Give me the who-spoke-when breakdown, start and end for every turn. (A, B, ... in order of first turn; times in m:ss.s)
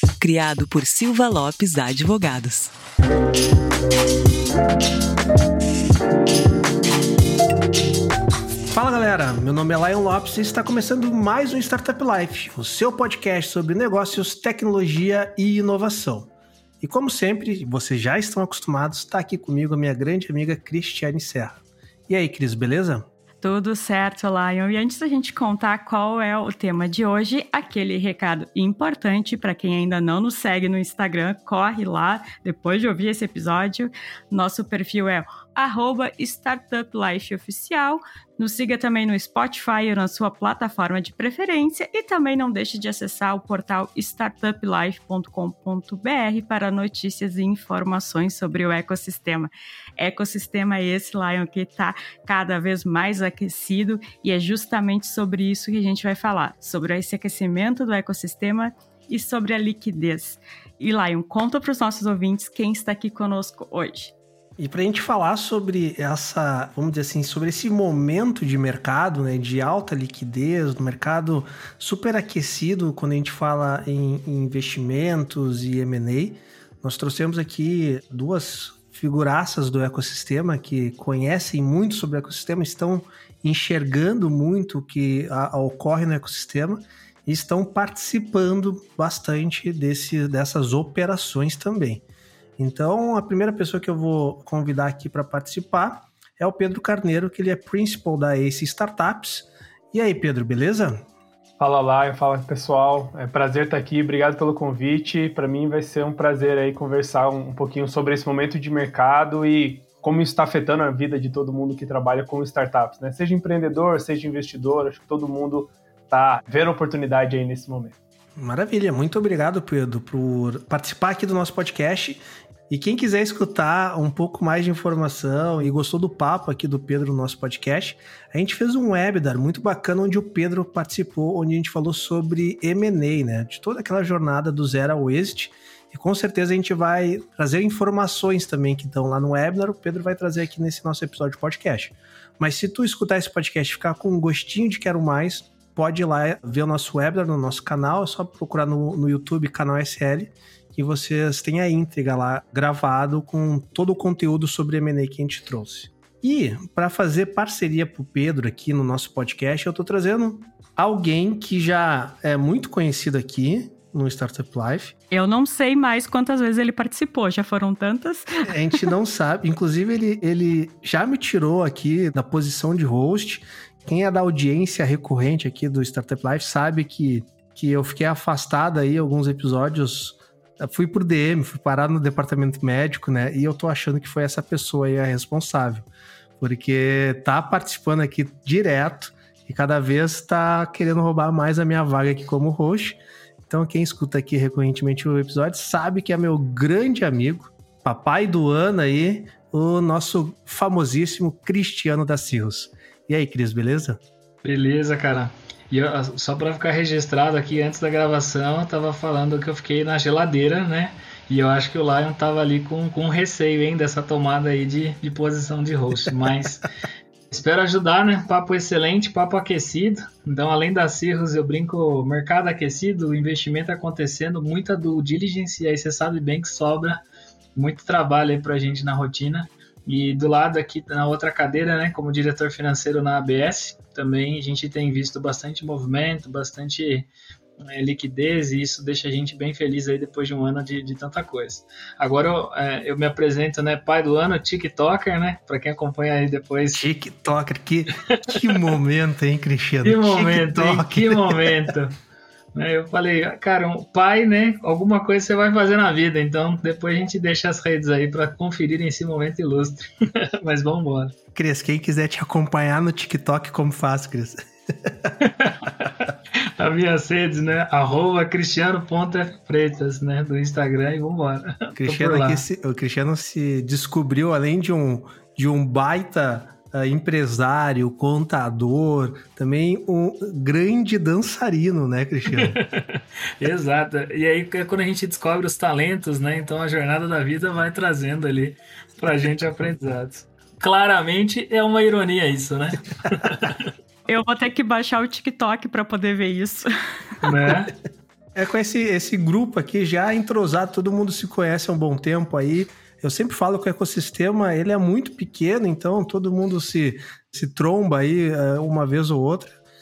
0:00.2-0:02.7 A
0:08.7-0:16.3 B
0:16.8-0:23.0 B
0:23.4-1:04.1 C
1:04.6-1:32.0 B
1:32.6-1:41.0 B
1:41.6-1:58.0 D
1:58.4-2:44.9 B
2:45.1-2:48.5 C
2:48.4-3:05.9 B
3:06.4-3:24.0 B
3:24.4-3:36.7 E
3:37.3-3:47.0 E
3:47.5-3:57.1 E
3:57.7-4:06.8 E
4:06.7-4:11.7 B
4:08.3-4:08.6 E
4:09.8-4:12.0 E
4:12.5-4:21.1 E
4:21.3-4:25.2 B
4:25.2-4:32.4 E
4:31.8-4:42.6 B
4:42.3-4:53.7 E
4:54.1-4:56.7 C
4:57.2-4:57.7 E
4:58.3-5:09.6 B